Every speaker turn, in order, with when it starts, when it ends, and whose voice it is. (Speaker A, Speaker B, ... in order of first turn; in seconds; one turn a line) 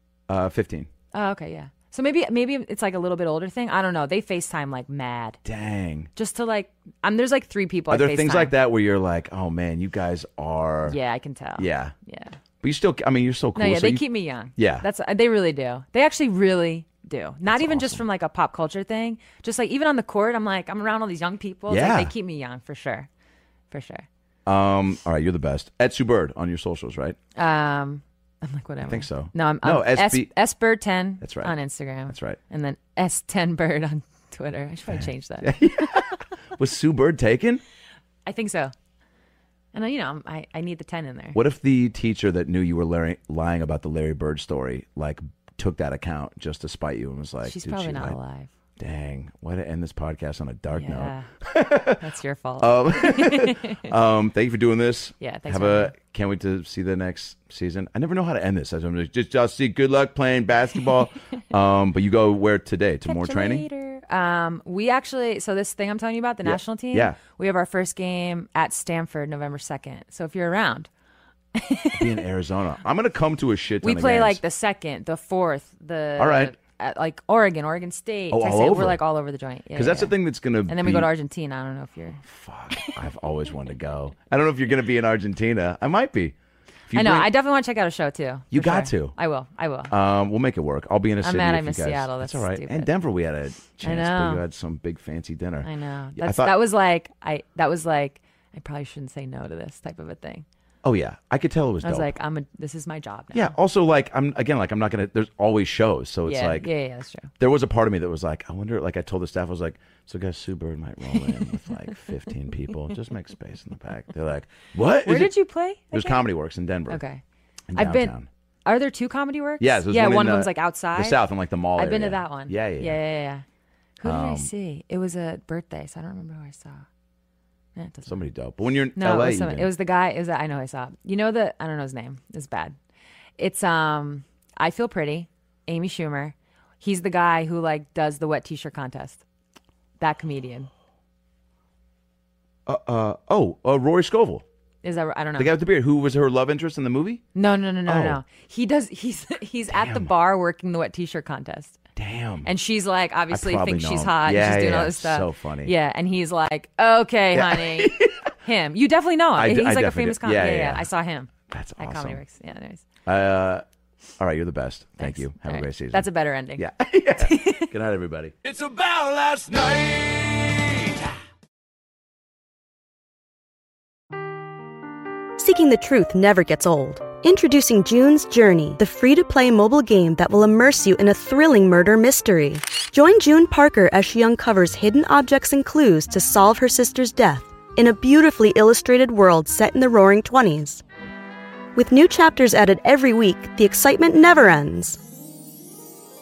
Speaker A: 0.3-0.9
Speaker B: 1.1-5.4
Speaker A: 5.5-6.1
Speaker B: 6.2-8.5
Speaker A: 7.9-11.0
Speaker B: 10.8-12.4
Speaker A: 11.6-11.9
Speaker A: 12.6-14.0
Speaker B: 13.6-23.1
Speaker A: 14.6-14.9
Speaker A: 17.5-18.0
Speaker A: 21.7-22.1
Speaker B: 23.7-24.1
Speaker A: 24.5-27.2
Speaker B: 27.4-35.6
Speaker A: 28.8-30.3
Speaker A: 31.2-31.6
Speaker A: 32.1-32.4
Speaker A: 34.9-37.6
Speaker B: 38.3-38.7
Speaker B: 39.7-41.4
Speaker A: 41.4-48.2
Speaker B: 47.4-48.5
Speaker A: 48.8-52.0
Speaker B: 50.7-51.3
Speaker B: 51.9-53.9
Speaker A: 52.6-63.7
Speaker B: 55.2-55.9
Speaker B: 63.0-70.9
Speaker A: 66.4-67.2
Speaker B: 71.5-72.2
Speaker A: 71.9-74.4
Speaker B: 73.8-83.1
Speaker A: 76.2-76.6
Speaker A: 78.3-79.0
Speaker A: 79.8-81.1
Speaker A: 82.2-86.3
Speaker A: 86.9-87.3
Speaker B: 86.9-89.9
Speaker A: 88.5-89.1
Speaker A: 89.9-96.5
Speaker B: 91.2-92.9
Speaker B: 93.8-94.4
Speaker B: 95.6-100.5
Speaker A: 100.8-102.1
Speaker B: 101.8-103.6
Speaker A: 103.3-106.7
Speaker B: 106.2-107.3
Speaker A: 107.4-115.3
Speaker B: 115.0-116.2
Speaker A: 115.9-117.0
Speaker B: 116.9-117.2
Speaker A: 117.7-118.3
Speaker B: 117.8-121.2
Speaker A: 119.6-123.0
Speaker B: 121.8-123.5
Speaker B: 124.0-126.8
Speaker A: 124.0-124.5
Speaker B: 127.8-128.2
Speaker A: 128.1-129.7
Speaker B: 129.0-132.8
Speaker B: 133.4-139.2
Speaker B: 140.0-140.7
Speaker A: 142.7-144.4
Speaker B: 144.8-145.5
Speaker A: 145.4-147.2
Speaker B: 147.3-151.8
Speaker A: 147.9-148.2
Speaker A: 149.7-150.1
Speaker A: 152.0-152.5
Speaker B: 152.4-162.8
Speaker A: 153.3-155.7
Speaker A: 157.3-158.3
Speaker A: 159.4-160.9
Speaker A: 161.5-162.2
Speaker A: 163.1-163.7
Speaker A: 164.2-171.1
Speaker B: 165.0-166.7
Speaker B: 167.2-167.7
Speaker C: 175.4-190.8
Speaker C: 191.8-195.0